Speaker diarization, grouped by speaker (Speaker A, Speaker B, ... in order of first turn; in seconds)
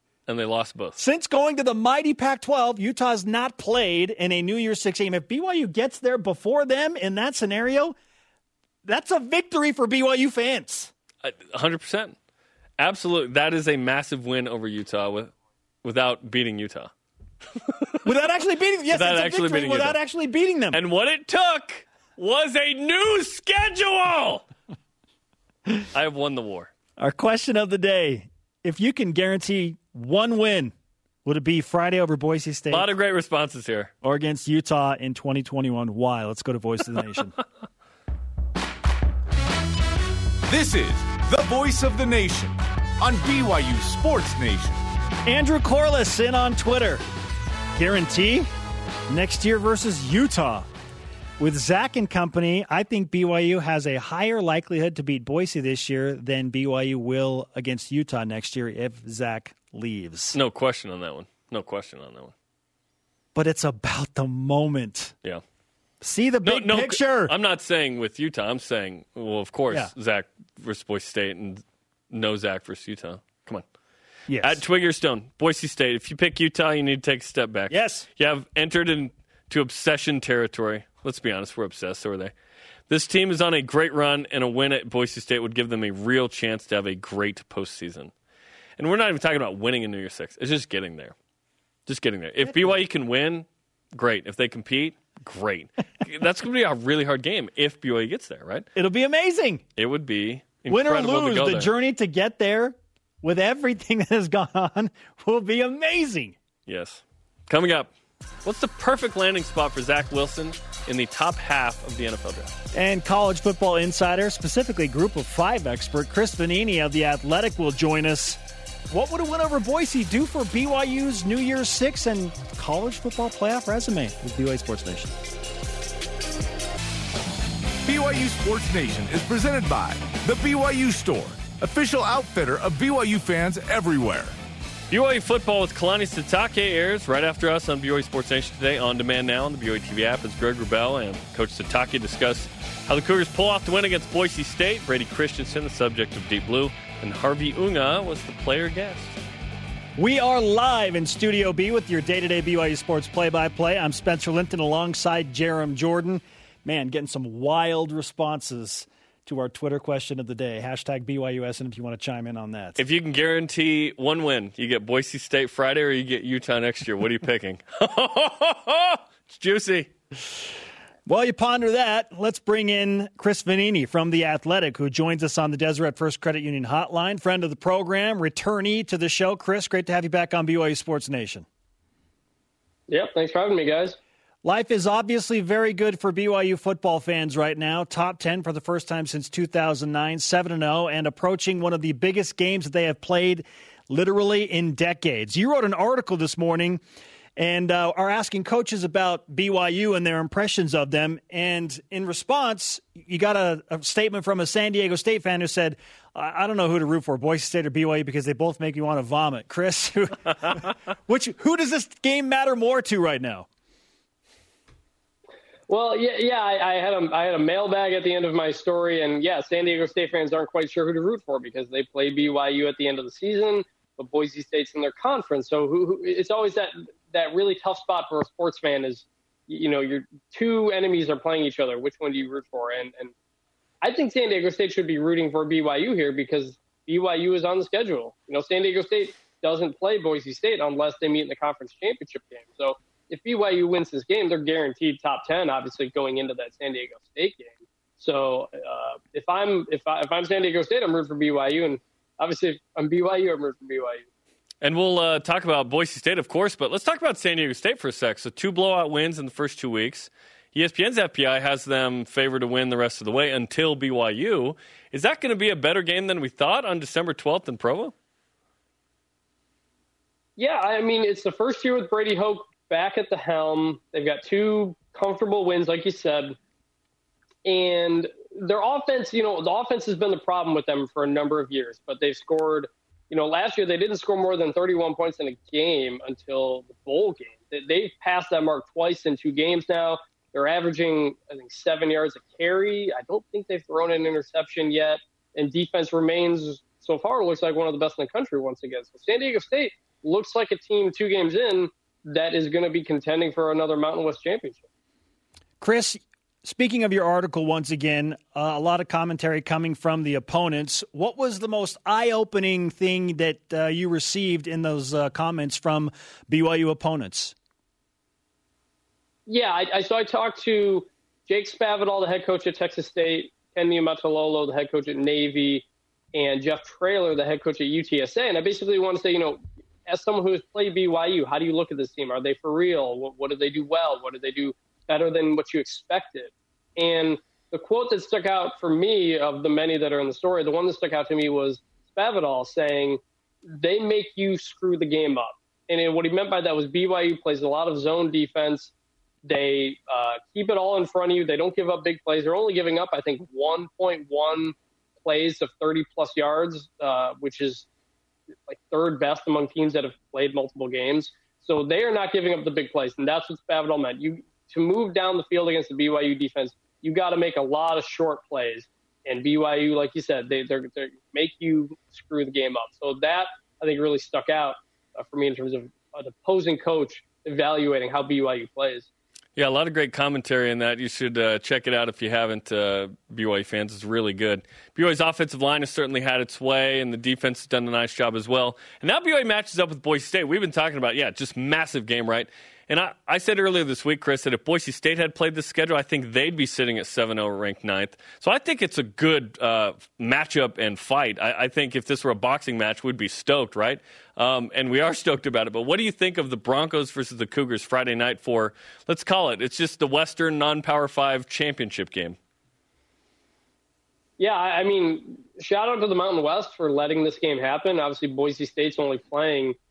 Speaker A: 0.3-1.0, 11.2-12.2, 12.8-15.3, 15.8-16.9, 17.6-18.0, 18.9-20.0, 20.7-24.4, 25.9-26.7, 32.7-33.9, 60.3-62.3, 66.4-73.7, 74.4-82.3, 82.9-88.1, 88.8-91.2, 91.9-98.7, 99.8-101.7, 106.7-107.9, 108.4-112.5, 134.9-149.2, 162.8-169.9, 254.6-267.9, 379.4-412.2
Speaker B: 1.0-8.0, 8.8-10.9, 18.0-20.8, 27.0-30.7, 31.2-32.9, 34.0-37.4, 45.2-47.0, 47.8-48.5, 49.1-50.7, 51.4-60.4, 63.4-65.2, 66.0-67.3, 74.3-74.6, 77.7-78.1, 92.5-92.8, 98.8-99.6, 100.7-106.4, 112.7-125.2, 150.0-162.8, 171.1-181.5, 184.4-196.8, 197.4-213.5, 305.6-317.4
Speaker C: 40.5-44.8, 127.8-134.4
Speaker D: 182.9-184.0, 215.7-233.1, 233.8-254.1, 270.4-276.4, 277.4-304.7, 319.3-348.7, 349.2-357.7, 358.5-378.9, 414.2-419.6